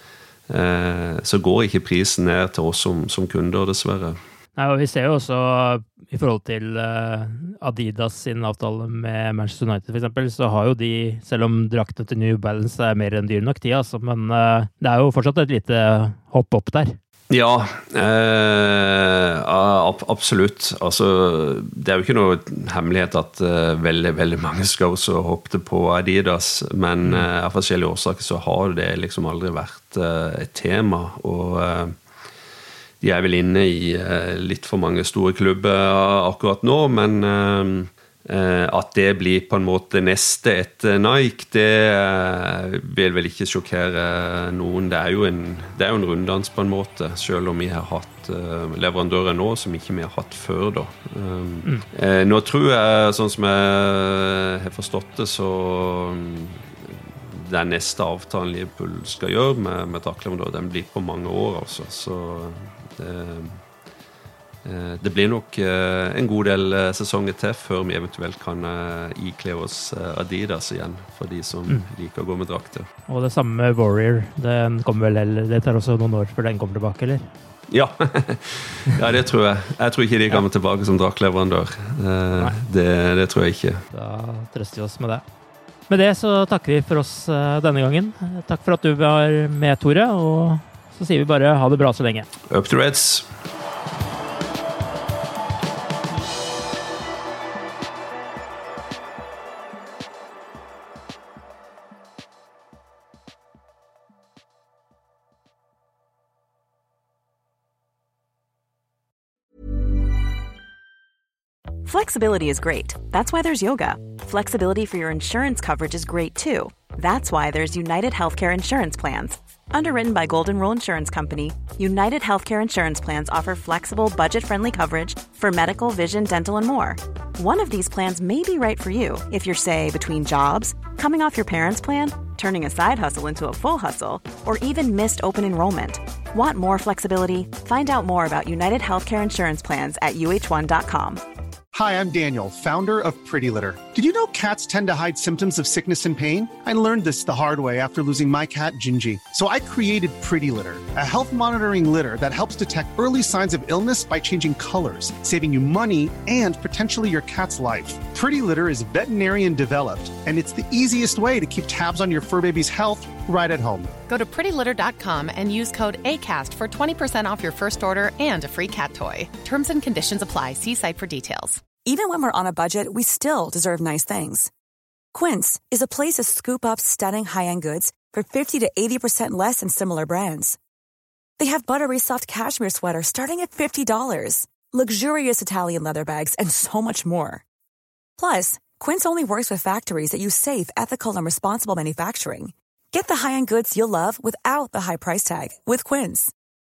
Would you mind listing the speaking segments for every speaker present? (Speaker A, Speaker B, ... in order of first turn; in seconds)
Speaker A: 0.5-4.2, 17.3-31.9, 33.0-63.6, 64.6-72.9, 77.7-83.8, 92.5-93.3
Speaker B: 4.6-16.9, 73.1-77.3, 83.9-85.2, 85.9-92.3
Speaker C: 111.8-141.2
Speaker D: 141.7-163.9
Speaker E: 164.1-171.6
Speaker F: 171.8-174.5, 175.1-180.6, 181.4-187.4, 188.2-196.3